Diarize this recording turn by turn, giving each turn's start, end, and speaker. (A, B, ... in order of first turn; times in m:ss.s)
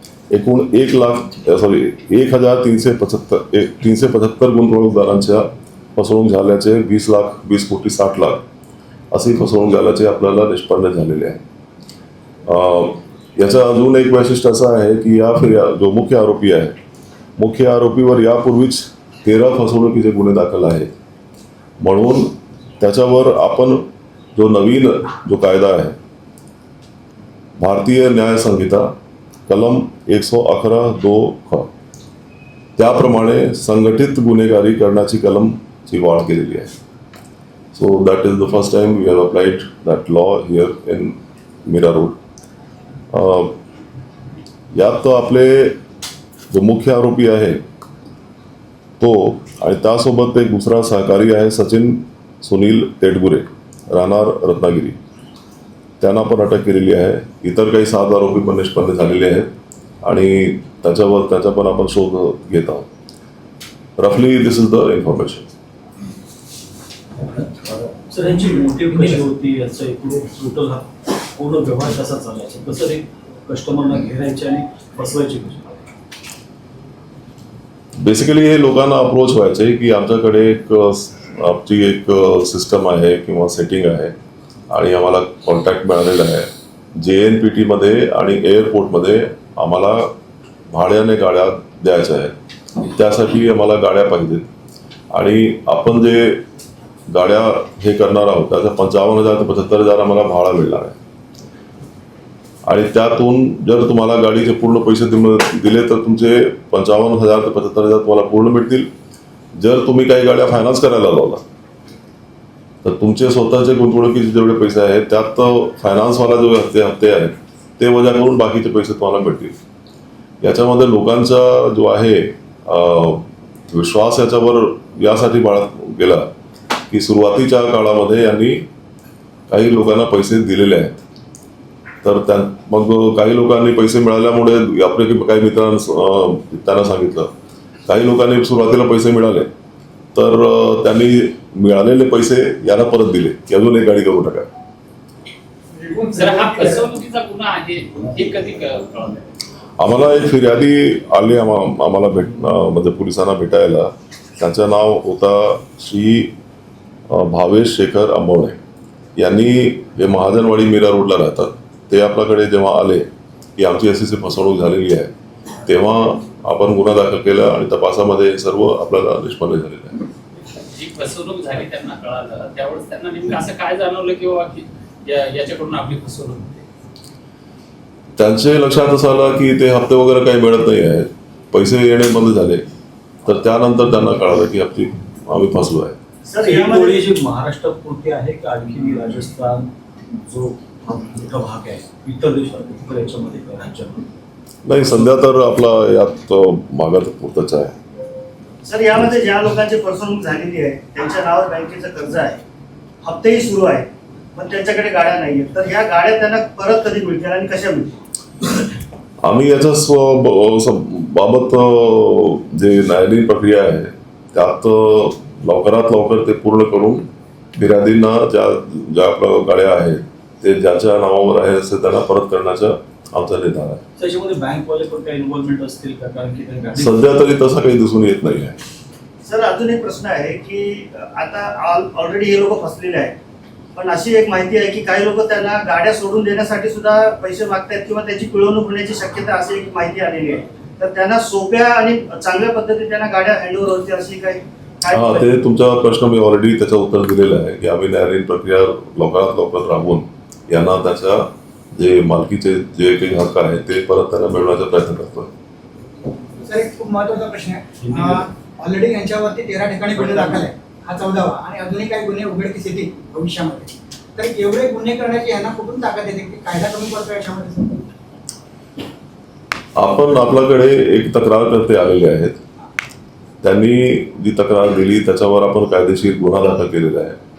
0:00.3-0:08.4 A
0:09.1-0:11.4 A
0:12.5-0:16.8 A
0:17.4-0:20.9 A
0:21.8-0:26.0 A
0:27.6-0:28.9 A
0:29.5-0:31.7 A
0:32.8-0:36.7 A
0:37.7-0:42.2 A
0:43.1-0:43.6 A
0:44.8-0:45.8 A
0:46.5-0:47.6 A
0:49.0-0:55.0 A
0:56.0-0:59.5 A
1:00.0-1:02.9 A
1:04.0-1:05.5 A
1:07.2-1:15.8 B
1:18.0-1:24.1 A
1:24.7-1:26.5 A
1:27.0-1:30.1 A
1:30.7-1:32.3 A
1:32.8-1:34.5 A
1:35.1-1:36.4 A
1:37.1-1:41.0 A
1:42.7-1:48.9 A
1:49.6-1:51.4 A
1:52.8-1:59.5 A
2:00.4-2:06.3 A
2:06.9-2:08.6 A
2:09.5-2:11.0 A
2:12.0-2:17.3 A
2:17.9-2:19.5 A
2:20.2-2:24.5 A
2:25.9-2:29.2 C
2:29.8-2:36.3 A
2:37.1-2:38.6 A
2:39.2-2:43.1 A
2:43.6-2:45.1 A
2:45.6-2:50.0 A
2:50.6-2:56.6 C
2:58.2-3:02.6 A
3:03.2-3:06.0 A
3:06.3-3:07.0 D
3:06.4-3:09.7 B
3:10.3-3:14.0 B
3:14.6-3:17.7 A
3:18.6-3:22.4 D
3:23.0-3:27.9 D
3:29.2-3:43.8 A
3:44.0-3:47.1 B
3:46.8-3:48.6 A
3:49.2-3:53.1 D
3:53.8-4:05.3 D
4:04.9-4:15.3 A
4:16.4-4:27.8 E
4:17.9-4:18.2 C
4:29.8-4:32.4 A
4:33.4-4:37.2 A